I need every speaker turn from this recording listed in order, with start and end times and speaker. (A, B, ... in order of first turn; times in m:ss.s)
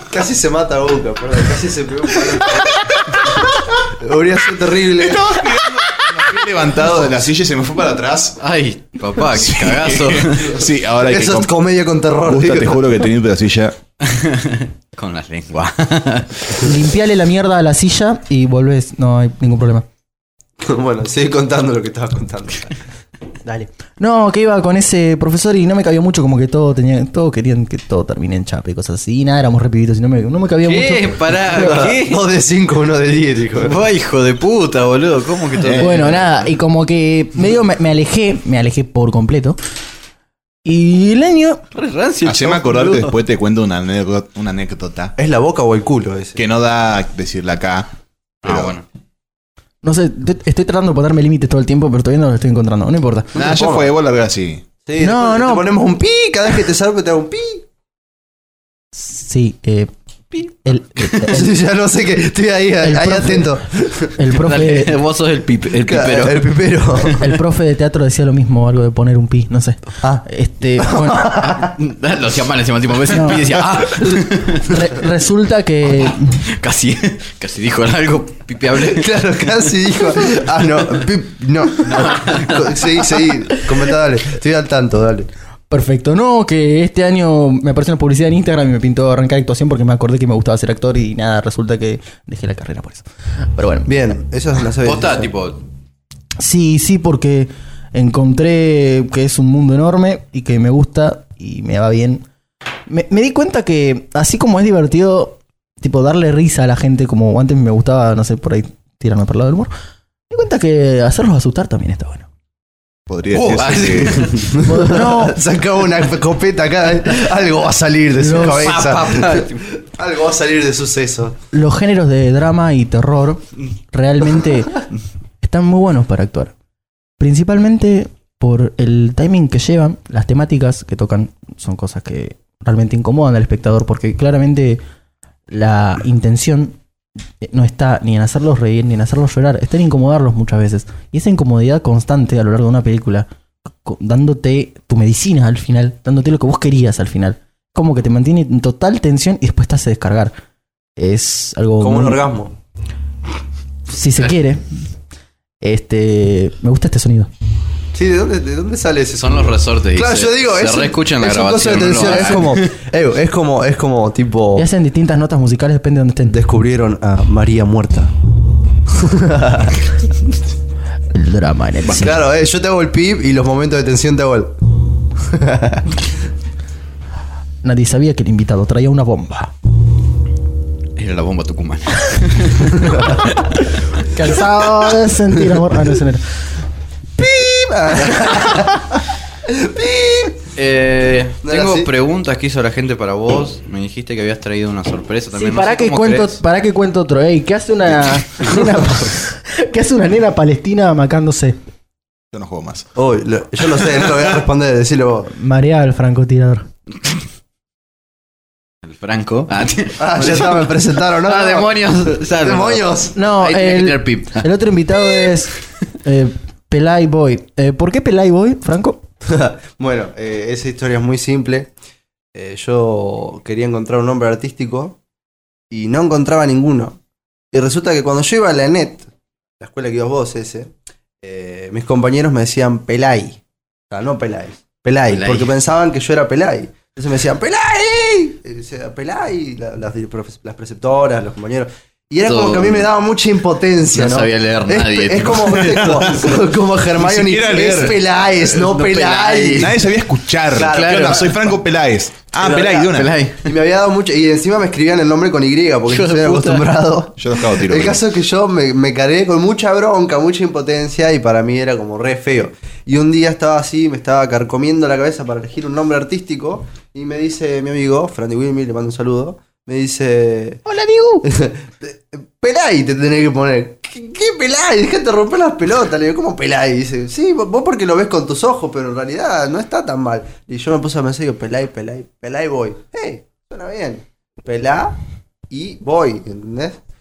0:00.1-0:05.4 A
0:04.9-0:08.4 B
0:08.4-0:10.6 C
0:09.2-0:11.5 B
0:10.4-0:13.0 A
0:12.2-0:13.8 B
0:14.0-0:16.7 C
0:16.6-0:19.8 D
0:20.6-0:22.8 A
0:23.4-0:31.2 D
0:30.6-0:32.3 C
0:31.5-0:33.8 A
0:33.6-0:36.2 C
0:35.6-0:36.0 B
0:35.8-0:39.6 D
0:40.6-0:41.6 D
0:41.7-0:43.1 C
0:42.2-0:45.1 B
0:45.2-0:46.4 A
0:46.4-0:47.9 B
0:48.4-0:48.8 C
0:48.4-0:48.8 B
0:49.8-0:53.3 D
0:53.3-0:54.6 B
0:53.3-0:53.9 A
0:54.8-0:57.6 A
0:55.0-0:55.7 D
0:58.9-1:01.5 D
1:01.2-1:04.2 A
1:02.8-1:03.6 D
1:04.2-1:05.0 D
1:04.3-1:07.1 C
1:05.8-1:07.4 A
1:07.2-1:11.4 D
1:10.8-1:11.7 A
1:11.4-1:14.7 C
1:13.1-1:13.4 D
1:14.6-1:16.4 D
1:16.4-1:19.7 C
1:18.7-1:25.3 A
1:21.8-1:23.0 C
1:25.7-1:33.0 D
1:33.6-1:33.9 D
1:33.8-1:35.3 A
1:34.8-1:35.6 C
1:36.4-1:42.2 D
1:42.9-1:49.7 D
1:50.3-1:52.3 D
1:53.1-1:54.4 B
1:53.3-1:54.6 C
1:53.8-2:01.4 A
1:54.6-1:55.4 D
1:58.2-1:58.8 D
1:58.3-1:59.6 C
2:01.5-2:04.9 D
2:05.4-2:06.5 D
2:07.2-2:14.8 D
2:15.5-2:16.8 D
2:17.4-2:23.3 D
2:23.8-2:30.3 D
2:31.0-2:32.2 D
2:31.8-2:32.5 A
2:33.9-2:34.7 D
2:35.6-2:37.3 D
2:37.9-2:44.7 A
2:39.2-2:42.7 C
2:44.6-2:46.4 D
2:46.3-2:48.1 A
2:48.9-2:49.8 A
2:51.1-2:52.2 D
2:51.8-2:54.6 A
2:55.2-2:55.9 A
2:57.6-2:59.5 D
3:01.0-3:03.3 C
3:04.0-3:06.3 D
3:07.2-3:10.4 A
3:10.6-3:16.4 C
3:11.4-3:11.9 A
3:15.3-3:21.6 D
3:22.3-3:22.9 B
3:23.0-3:25.3 A
3:25.4-3:26.7 D
3:28.8-3:34.4 C
3:30.0-3:33.1 A
3:33.1-3:39.0 D
3:39.2-3:41.7 A
3:42.3-3:45.0 A
3:45.7-3:47.0 A
3:47.5-3:49.1 A
3:49.6-3:53.4 A
3:53.9-4:09.7 A
3:55.1-3:55.5 C
4:02.2-4:02.9 C
4:03.9-4:06.1 C
4:05.6-4:06.2 B
4:06.9-4:08.0 B
4:08.4-4:09.8 C
4:09.5-4:13.1 B
4:10.5-4:11.4 A
4:10.6-4:11.3 C
4:12.4-4:12.9 A
4:12.8-4:13.5 C
4:13.4-4:30.6 A
4:15.9-4:16.7 C
4:17.2-4:18.0 B
4:30.6-4:31.3 D
4:31.2-4:45.0 A
4:45.5-4:46.8 A